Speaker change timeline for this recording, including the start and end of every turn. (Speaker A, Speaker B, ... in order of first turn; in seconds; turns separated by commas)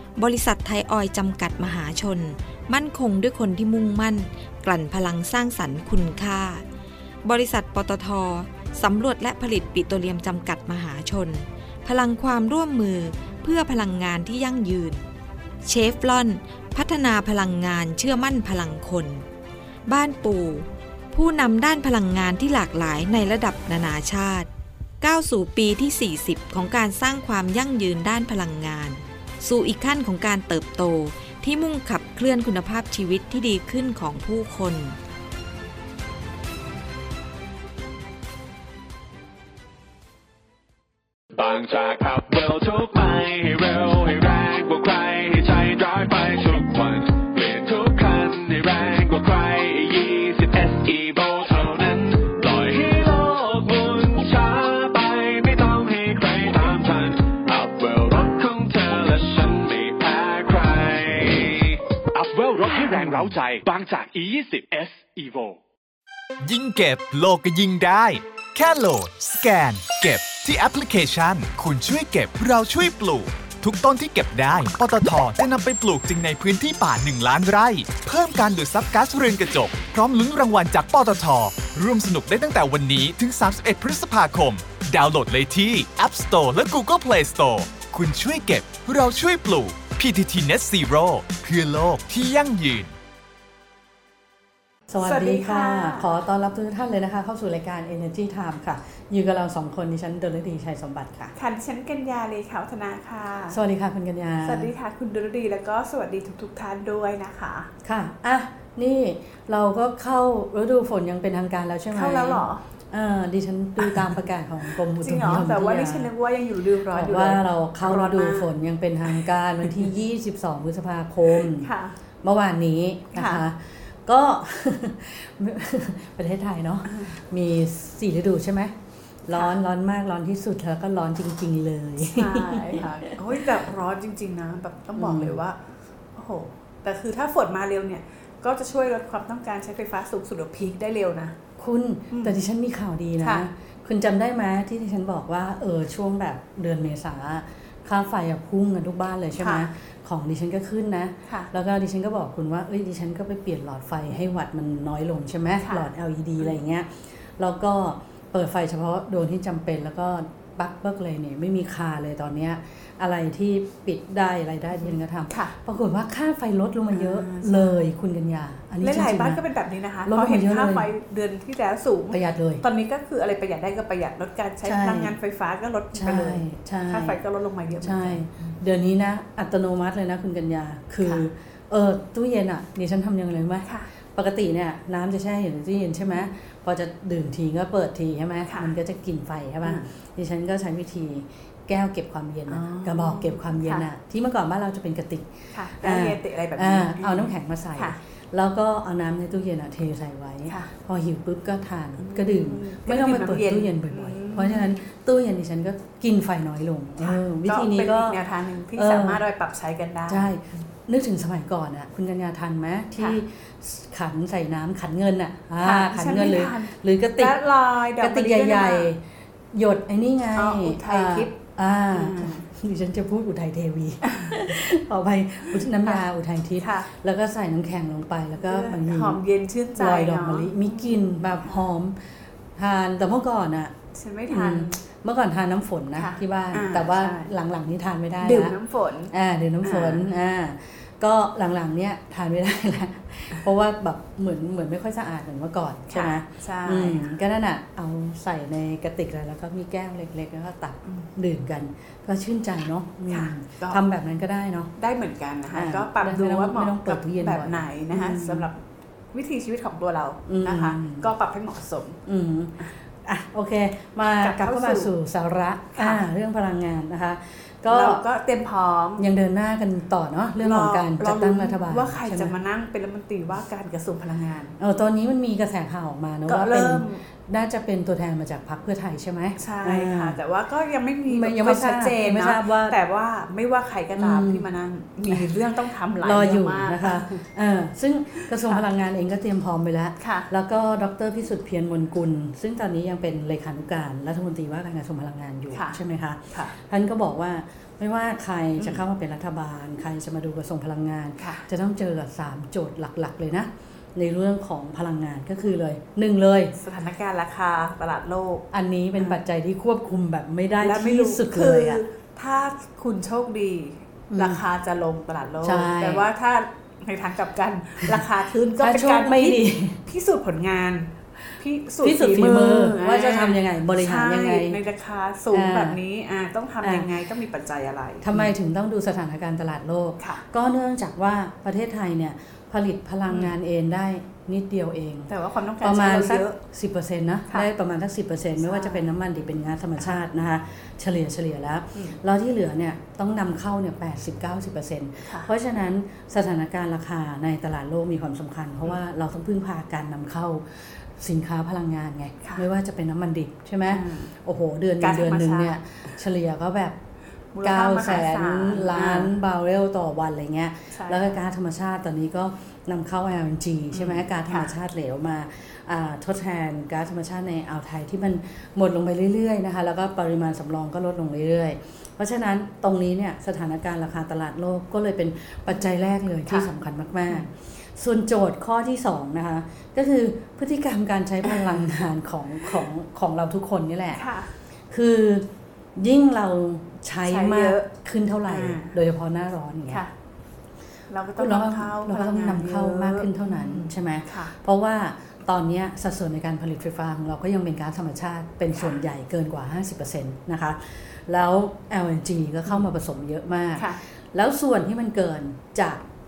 Speaker A: 0.2-6.6, Speaker A: 7.2-15.0, Speaker A: 15.6-19.2, Speaker A: 19.9-24.5, Speaker A: 25.0-35.0, Speaker B: 41.3-65.6, Speaker C: 66.4-92.9, Speaker D: 94.9-101.3, Speaker E: 95.0-96.1, Speaker E: 101.3-103.6, Speaker D: 103.5-104.7, Speaker E: 104.4-107.7, Speaker D: 107.8-116.1, Speaker E: 111.9-112.6, Speaker E: 113.8-114.2, Speaker E: 114.7-118.5, Speaker D: 116.9-121.7, Speaker E: 121.4-122.0, Speaker D: 122.2-128.7, Speaker E: 123.1-123.4, Speaker E: 126.9-127.1, Speaker D: 129.2-132.9, Speaker E: 132.0-135.6, Speaker D: 135.0-135.4, Speaker E: 136.1-141.4, Speaker D: 141.6-169.4, Speaker E: 143.2-143.4, Speaker E: 149.4-149.7, Speaker E: 155.6-155.9, Speaker E: 166.9-167.8, Speaker E: 168.8-178.2, Speaker D: 170.1-170.9, Speaker D: 172.1-172.6, Speaker D: 174.6-175.1, Speaker D: 175.9-177.2, Speaker D: 177.8-208.2, Speaker E: 181.0-181.3, Speaker E: 188.5-188.7, Speaker E: 189.6-189.9, Speaker E: 192.5-193.8, Speaker E: 195.5-198.0, Speaker E: 200.5-200.7, Speaker E: 202.0-204.7, Speaker E: 207.0-210.3, Speaker D: 208.8-209.2, Speaker D: 210.1-217.4, Speaker E: 215.6-218.9, Speaker D: 218.0-229.2, Speaker E: 220.3-221.3, Speaker E: 221.9-222.5, Speaker E: 224.0-224.4, Speaker E: 226.6-226.9, Speaker E: 228.4-230.9, Speaker D: 229.8-232.0, Speaker D: 232.6-233.7, Speaker E: 233.9-234.8, Speaker D: 234.3-238.5, Speaker E: 235.9-237.3, Speaker E: 238.2-240.1, Speaker D: 239.1-254.7, Speaker E: 245.9-247.1, Speaker E: 253.1-253.8, Speaker E: 254.8-258.6, Speaker D: 255.5-258.5, Speaker E: 259.1-262.0, Speaker D: 260.2-261.1, Speaker D: 262.0-268.0, Speaker E: 264.2-264.9, Speaker E: 265.7-266.0, Speaker E: 267.7-269.1, Speaker D: 269.0-272.3, Speaker E: 270.3-274.6, Speaker D: 274.6-280.2, Speaker E: 276.2-277.0, Speaker E: 279.4-287.2, Speaker D: 281.1-282.8, Speaker D: 283.9-284.5, Speaker D: 285.1-285.3, Speaker D: 286.0-306.5, Speaker E: 288.2-288.6, Speaker E: 290.0-290.3, Speaker E: 295.5-295.8, Speaker E: 301.2-301.5, Speaker E: 306.6-309.2, Speaker D: 308.5-311.8, Speaker E: 310.6-328.3, Speaker D: 314.1-314.4, Speaker D: 315.4-316.1, Speaker D: 318.6-319.8, Speaker D: 321.8-324.6, Speaker D: 325.3-325.8, Speaker D: 326.6-326.9, Speaker D: 328.0-356.8, Speaker E: 335.1-336.4, Speaker E: 338.4-338.9, Speaker E: 352.2-352.5, Speaker E: 353.7-354.1, Speaker E: 354.8-355.6, Speaker E: 357.3-359.1, Speaker D: 357.4-384.0, Speaker E: 360.7-361.2, Speaker E: 363.7-364.5, Speaker E: 383.9-384.3, Speaker D: 384.7-389.8, Speaker E: 387.1-387.7, Speaker E: 388.3-388.7, Speaker E: 390.9-394.3, Speaker D: 391.2-405.8